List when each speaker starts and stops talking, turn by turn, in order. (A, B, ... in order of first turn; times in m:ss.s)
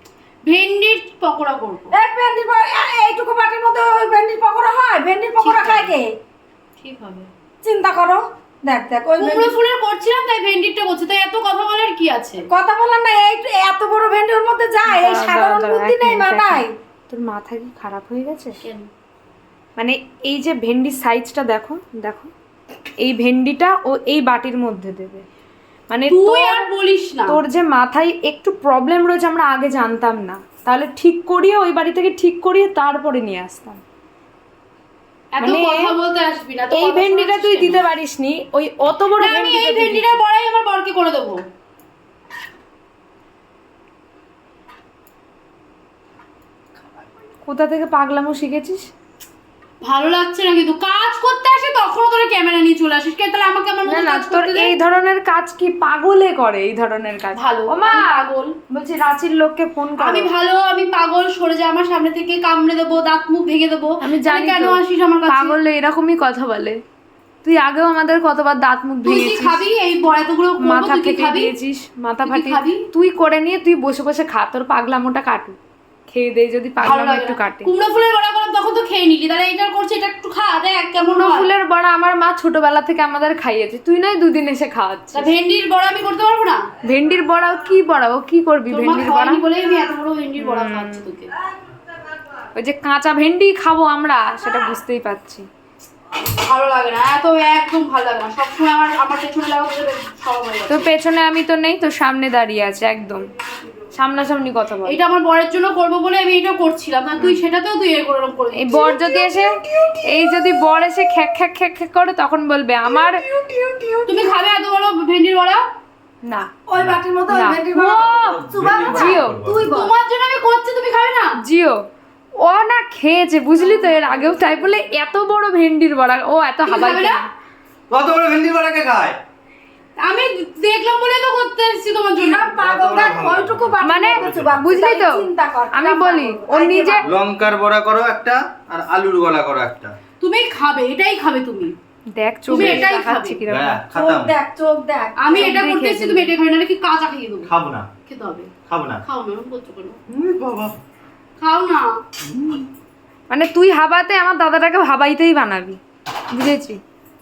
0:00.5-0:01.9 A
0:01.9-0:06.1 B
0:05.4-0:06.0 A
0:06.8-0:07.3 A
0:07.6-0:09.6 B
0:09.2-0:12.5 A
0:12.5-0:16.7 B
0:14.9-0:18.6 C
0:18.6-0:18.9 A
0:19.8-0:22.3 C
0:23.0-0:25.2 C
0:25.9-0:26.6 C
0:26.1-0:27.4 A
0:27.3-0:33.8 C
0:35.4-0:37.8 A
0:35.4-0:35.9 C
0:36.7-0:40.2 C
0:39.2-0:41.4 A
0:47.5-0:48.9 C
0:49.8-0:54.8 A
0:53.8-1:00.3 C
0:57.4-0:58.6 A
1:00.0-1:05.6 A
1:04.0-1:06.8 C
1:07.4-1:09.6 C
1:09.0-1:11.5 A
1:10.6-1:15.6 C
1:12.2-1:12.8 A
1:16.1-1:17.7 C
1:16.8-1:21.5 A
1:21.0-1:25.3 C
1:25.1-1:26.6 A
1:26.8-1:29.4 C
1:28.7-1:31.3 A
1:30.4-1:31.1 C
1:32.6-1:35.5 C
1:36.2-1:40.9 A
1:40.7-1:43.3 C
1:43.9-1:45.0 C
1:44.9-1:48.8 A
1:48.6-1:49.6 C
1:48.7-1:50.3 B
1:50.1-1:53.2 C
1:52.9-1:54.4 B
1:54.1-1:55.6 A
1:56.2-1:56.5 C
1:56.7-1:59.9 B
1:57.3-1:59.4 C
1:58.0-1:59.6 D
1:58.6-2:01.3 A
2:01.4-2:01.9 C
2:02.4-2:07.3 C
2:03.6-2:04.8 A
2:06.7-2:07.2 A
2:07.9-2:09.2 D
2:10.0-2:12.5 A
2:12.2-2:17.1 B
2:12.5-2:14.6 D
2:13.8-2:17.1 C
2:17.0-2:19.9 D
2:20.2-2:21.7 A
2:22.2-2:23.8 C
2:22.5-2:23.4 A
2:23.5-2:24.3 D
2:23.9-2:25.5 B
2:25.2-2:27.5 A
2:25.3-2:26.3 C
2:27.4-2:27.9 D
2:28.1-2:28.5 A
2:28.7-2:29.0 D
2:29.0-2:30.0 A
2:30.1-2:30.8 D
2:31.4-2:31.9 A
2:32.3-2:32.6 D
2:33.3-2:35.8 C
2:36.3-2:36.8 C